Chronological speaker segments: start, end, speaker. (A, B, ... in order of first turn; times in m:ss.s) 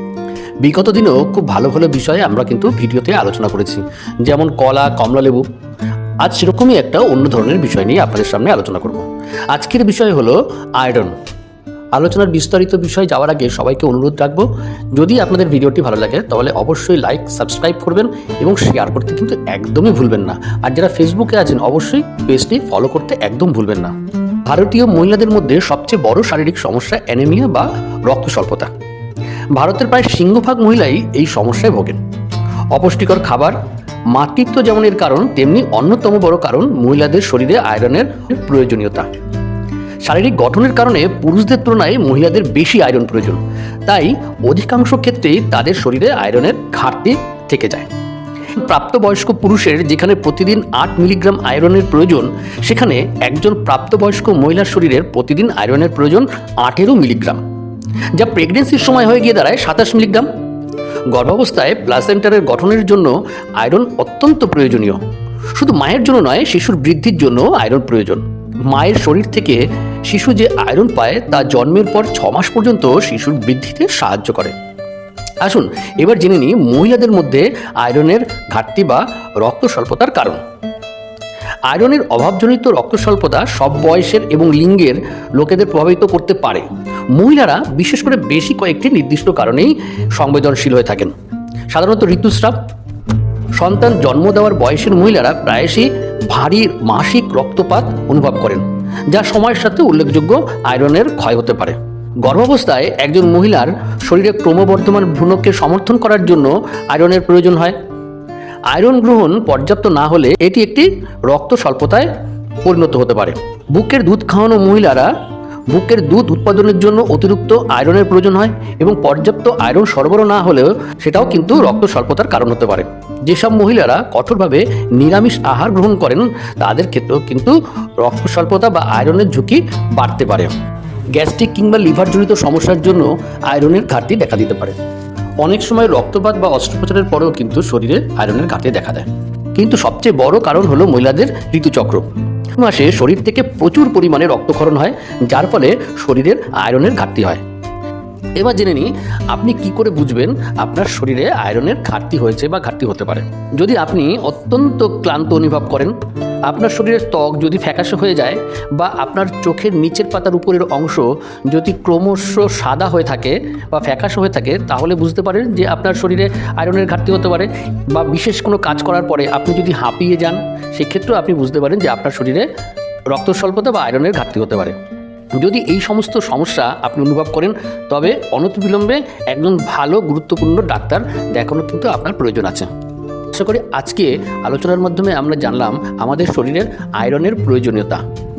0:00.6-0:05.4 A
0:06.2-0:11.1 A
0:12.0-0:28.7 A
0:29.6-0:32.0 A
0:32.7-0:33.6 A
0:34.1-0:39.1 A
0:40.0-0:47.9 A
0:48.5-0:57.4 A
0:58.1-1:00.3 A
1:01.1-1:05.0 A
1:05.5-1:14.5 A
1:15.4-1:20.4 A
1:21.7-1:31.1 A
1:31.7-1:32.6 A
1:33.6-1:47.8 A
1:48.7-1:52.1 A
1:52.6-1:55.1 A
1:55.7-2:10.5 A
2:11.1-2:14.8 A
2:15.4-2:27.4 A
2:28.4-2:35.9 A
2:36.5-2:52.5 A
2:53.1-2:54.8 A
2:55.4-3:02.7 A
3:03.3-3:08.0 A